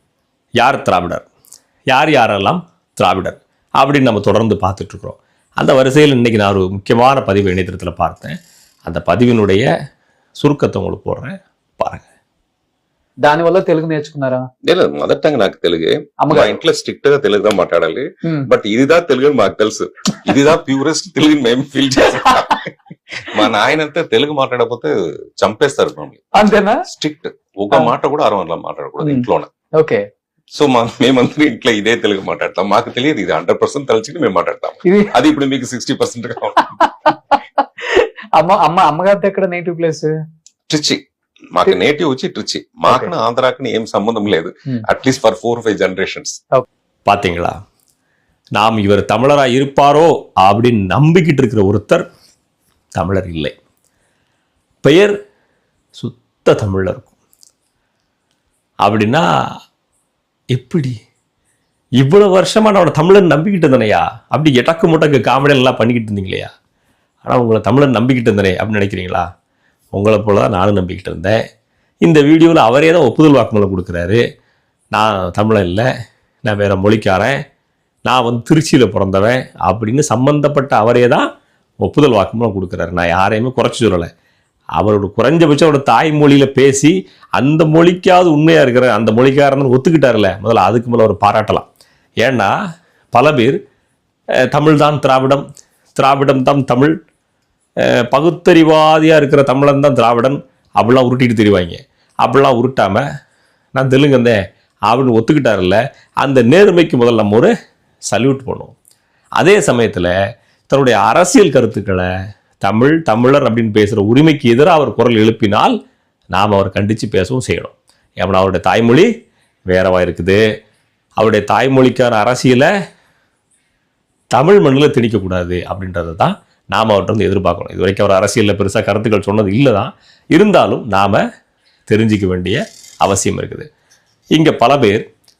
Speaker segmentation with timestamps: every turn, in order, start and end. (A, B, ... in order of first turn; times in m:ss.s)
0:00.6-0:01.2 A
0:01.9-0:08.3 A
0:08.8-0:09.7 A
0:10.4-0:12.1 A
0:13.2-0:14.5 B
0:14.6-0:22.7 C
0:16.2-0:16.6 B
0:23.2-0:29.5 C
0:26.4-0:26.8 B
0:29.0-0:30.0 B
0:30.6-0:36.7 C
0:34.8-0:35.1 B
0:37.1-0:40.1 B
0:40.7-0:41.0 C
0:41.5-0:46.4 C
0:47.1-0:47.6 A
0:48.6-0:52.0 A
0:53.0-0:53.5 A
0:54.8-0:55.1 A
0:56.0-0:57.1 A
0:58.8-0:59.3 A
1:00.5-1:01.0 A
1:02.0-1:06.5 A
1:07.2-1:09.2 A
1:09.9-1:11.4 A
1:12.0-1:14.2 A
1:14.9-1:15.9 A
1:16.4-1:17.4 A
1:18.1-1:21.3 A
1:21.8-1:24.1 A
1:24.8-1:31.7 A
1:32.2-1:32.5 A
1:33.1-1:33.6 A
1:34.5-1:35.4 A
1:36.0-1:37.0 A
1:38.1-1:43.0 A
1:43.8-1:44.4 A
1:44.9-1:47.5 A
1:48.1-1:48.8 A
1:49.4-1:50.1 A
1:50.7-1:55.8 A
1:56.3-1:59.1 A
1:59.7-2:00.4 A
2:01.2-2:02.7 A
2:04.3-2:11.2 A
2:11.9-2:13.7 A
2:14.3-2:15.0 A